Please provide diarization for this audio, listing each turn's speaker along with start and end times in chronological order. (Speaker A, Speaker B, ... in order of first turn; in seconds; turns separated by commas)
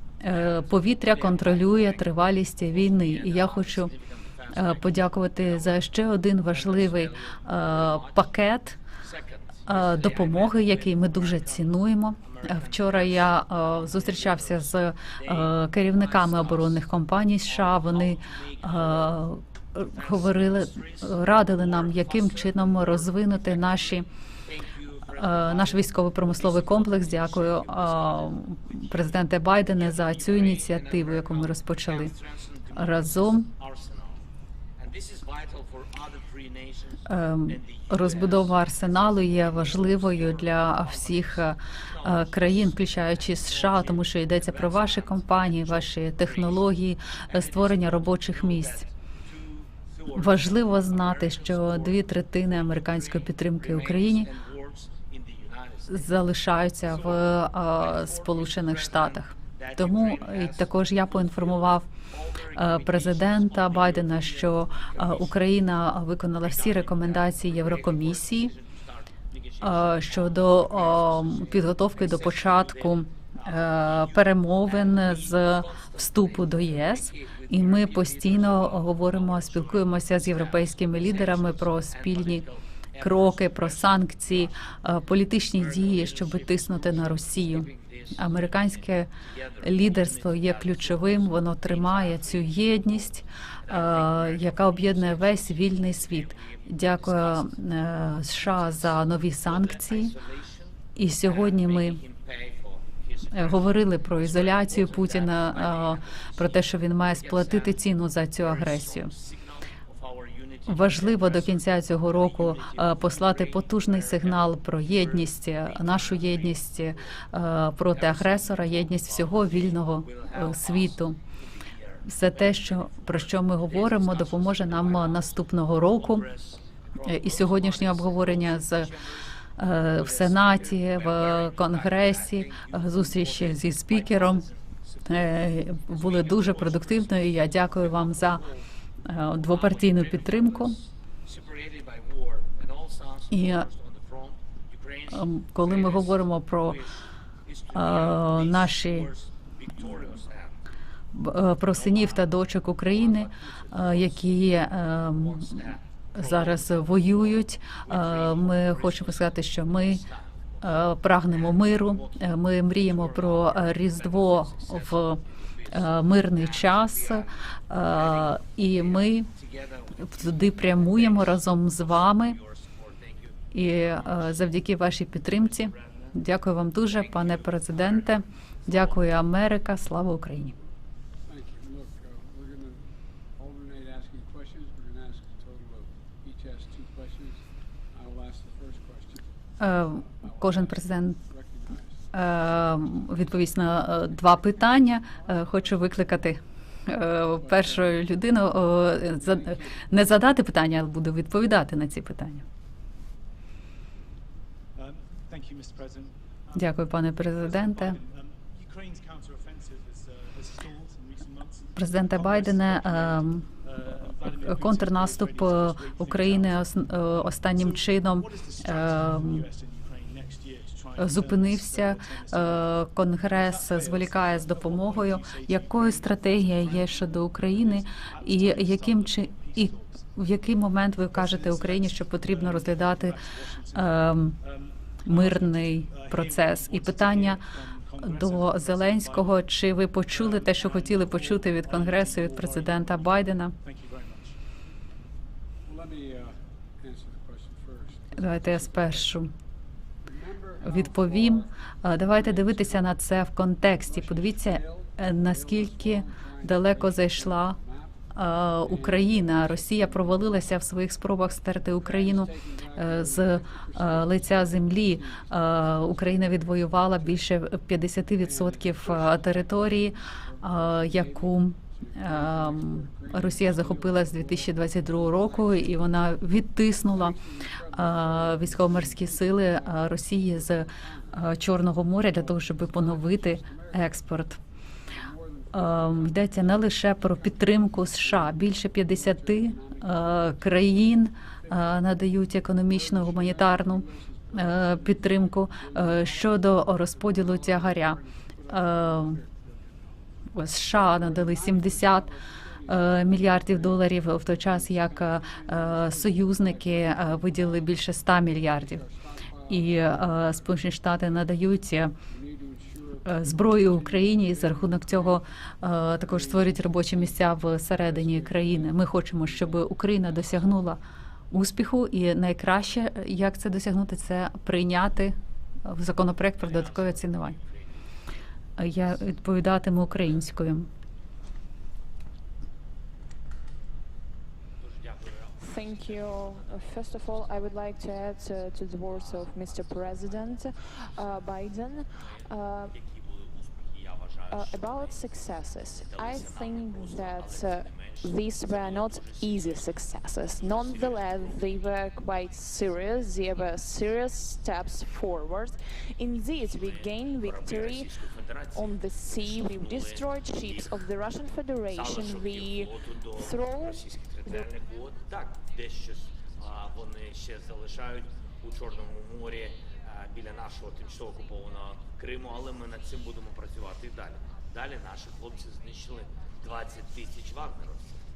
Speaker A: 0.2-3.9, Speaker B: 0.3-5.8, Speaker A: 4.5-8.8, Speaker B: 6.5-8.3, Speaker B: 9.0-16.8, Speaker A: 9.7-24.1, Speaker B: 17.4-19.1, Speaker B: 19.9-29.1, Speaker A: 25.1-32.1, Speaker B: 29.7-34.2, Speaker A: 32.7-33.5, Speaker B: 34.8-46.6, Speaker A: 37.1-48.8, Speaker B: 47.3-56.1, Speaker A: 50.1-54.3, Speaker A: 55.9-61.9, Speaker B: 56.9-65.4, Speaker A: 62.5-68.5, Speaker B: 66.4-84.5, Speaker A: 69.6-82.4, Speaker A: 83.0-89.1, Speaker B: 85.5-97.5, Speaker A: 89.6-100.1, Speaker B: 98.4-107.8, Speaker A: 100.9-102.0, Speaker A: 103.3-109.1, Speaker B: 108.4-117.2, Speaker A: 110.7-121.2, Speaker B: 117.9-129.3, Speaker A: 122.0-126.2, Speaker A: 127.0-128.9, Speaker A: 129.6-134.4, Speaker B: 129.9-138.7, Speaker A: 135.1-138.4, Speaker A: 139.1-140.8, Speaker B: 139.3-150.5, Speaker A: 143.3-143.7, Speaker A: 145.1-146.8, Speaker A: 147.7-149.1, Speaker A: 151.1-160.0, Speaker B: 151.7-174.5, Speaker A: 160.6-165.2, Speaker A: 165.7-169.3, Speaker A: 170.0-172.4, Speaker A: 173.5-180.5, Speaker B: 175.3-176.2, Speaker B: 176.9-179.1, Speaker C: 181.2-192.1, Speaker A: 189.6-191.2, Speaker A: 192.1-202.4, Speaker C: 197.4-198.0, Speaker C: 199.1-199.9, Speaker D: 204.7-230.2, Speaker A: 206.5-208.0, Speaker A: 211.8-213.5, Speaker A: 214.4-219.4, Speaker A: 221.0-233.2, Speaker D: 231.1-239.4, Speaker A: 233.7-234.4, Speaker A: 235.0-237.4, Speaker A: 238.0-243.5, Speaker D: 240.1-244.4, Speaker C: 245.6-249.1, Speaker A: 248.2-249.3, Speaker C: 250.0-251.5, Speaker A: 250.6-257.6, Speaker C: 252.1-253.0, Speaker C: 253.7-257.9, Speaker A: 258.1-277.2, Speaker C: 258.6-260.6, Speaker C: 261.8-267.2, Speaker C: 268.2-275.9, Speaker C: 276.8-281.4, Speaker A: 277.7-284.4, Speaker C: 282.1-284.0, Speaker C: 284.9-290.5, Speaker A: 285.5-299.2, Speaker C: 291.4-292.1, Speaker C: 292.6-300.0, Speaker A: 300.3-302.1, Speaker C: 300.7-307.7, Speaker A: 302.7-308.8, Speaker C: 308.4-311.3, Speaker A: 309.5-311.9, Speaker C: 312.0-315.2, Speaker A: 313.1-320.8, Speaker C: 315.9-320.6, Speaker A: 321.3-327.4, Speaker B: 326.4-327.8, Speaker A: 328.6-330.7, Speaker B: 334.6-353.5, Speaker E: 335.4-342.7, Speaker E: 344.3-357.9, Speaker B: 356.5-360.9, Speaker E: 358.5-364.5, Speaker B: 361.7-377.9